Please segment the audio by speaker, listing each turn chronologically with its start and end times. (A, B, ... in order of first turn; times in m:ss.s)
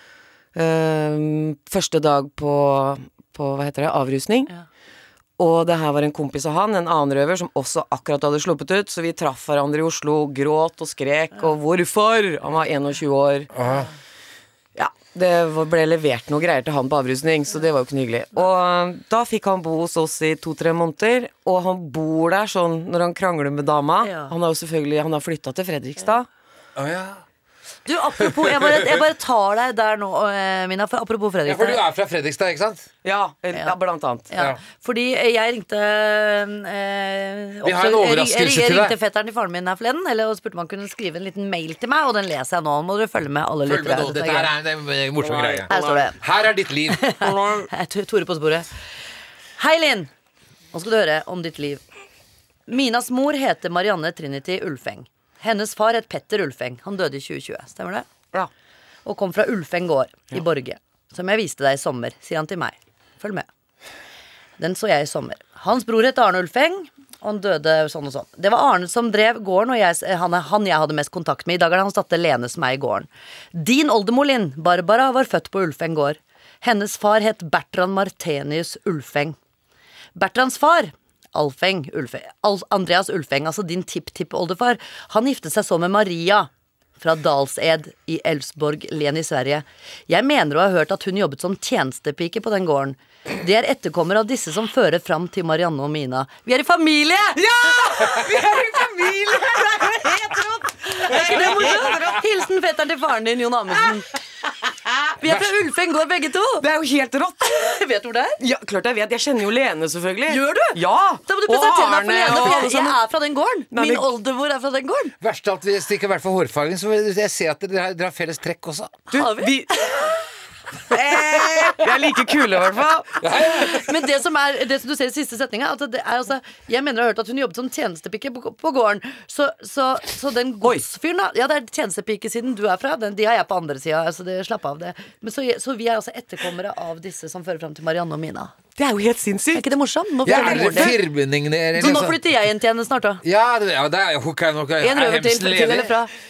0:00.6-0:04.5 A
0:05.4-0:13.5 A
0:13.5-0:13.9 B
0:14.8-0:26.3 A
0:24.0-0:24.3 C
0:26.8-0:27.2 B
0:27.9-0:31.8 C
0:28.2-0:29.0 B
0:31.5-0:32.9 B
0:33.0-0:34.3 A
0:34.3-0:44.5 C
0:37.6-0:39.0 B
0:43.6-0:47.1 B
0:45.2-0:46.1 A
0:45.7-0:46.2 C
0:46.9-0:48.7 C
0:47.2-0:47.7 A
0:49.6-0:50.1 C
0:50.7-0:51.8 C
0:52.7-0:58.1 C
0:59.0-1:03.5 C
1:04.6-1:19.4 C
1:20.2-1:37.5 C
1:37.4-1:42.2 A
1:40.8-1:44.1 C
1:45.2-1:46.6 C
1:45.2-1:45.5 B
1:46.6-1:47.8 A
1:47.5-1:48.4 C
1:48.4-1:53.0 A
1:50.3-1:55.1 C
1:53.7-1:54.1 A
1:55.2-1:59.1 B
1:59.1-2:00.0 A
1:59.1-2:00.0 C
2:00.9-2:03.2 A
2:03.2-2:03.9 B
2:03.4-2:18.5 C
2:18.8-2:19.7 A
2:19.5-2:21.0 C
2:20.3-2:21.0 A
2:20.3-2:22.2 B
2:21.8-2:23.2 C
2:23.2-2:25.9 B
2:24.8-2:26.1 C